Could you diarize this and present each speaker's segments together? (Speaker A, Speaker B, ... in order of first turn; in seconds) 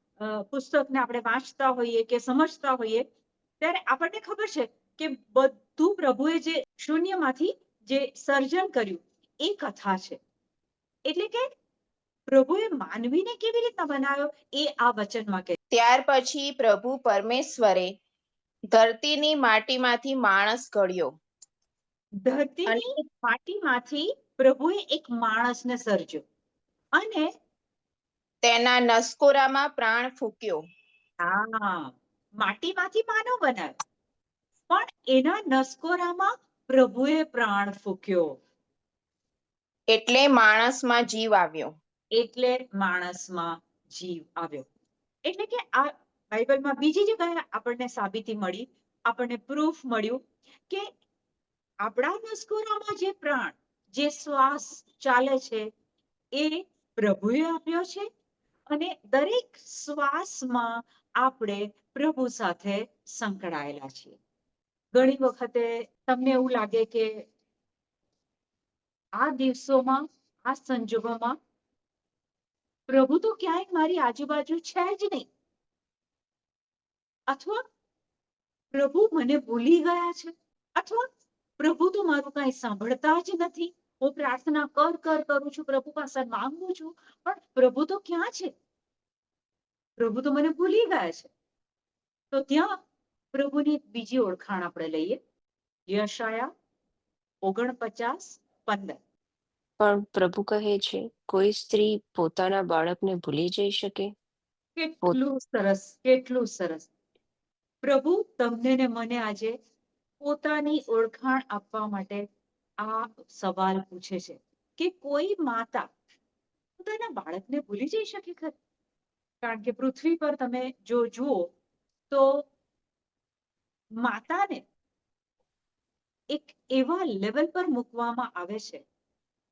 Speaker A: 0.2-3.0, 3.6-10.2, 11.1-11.5, 12.3-15.6, 22.2-26.2, 26.9-27.3, 31.2-33.8, 34.7-38.3, 42.1-44.6, 45.2-50.9, 51.8-55.7, 56.3-58.0, 58.7-64.2, 64.9-67.1, 69.2-71.3, 72.9-75.3, 77.3-77.6, 78.7-81.0, 81.6-88.5, 90.0-91.3, 92.3-92.8, 93.3-95.2, 95.9-96.5, 97.4-99.0, 104.8-106.9, 107.8-109.5, 110.2-112.2, 112.8-115.9, 116.8-118.5, 119.4-121.5, 122.1-122.5, 124.0-124.6, 126.3-128.8
Speaker B: 15.7-17.9, 18.7-21.1, 28.4-30.6, 39.9-41.7
Speaker C: 99.8-104.1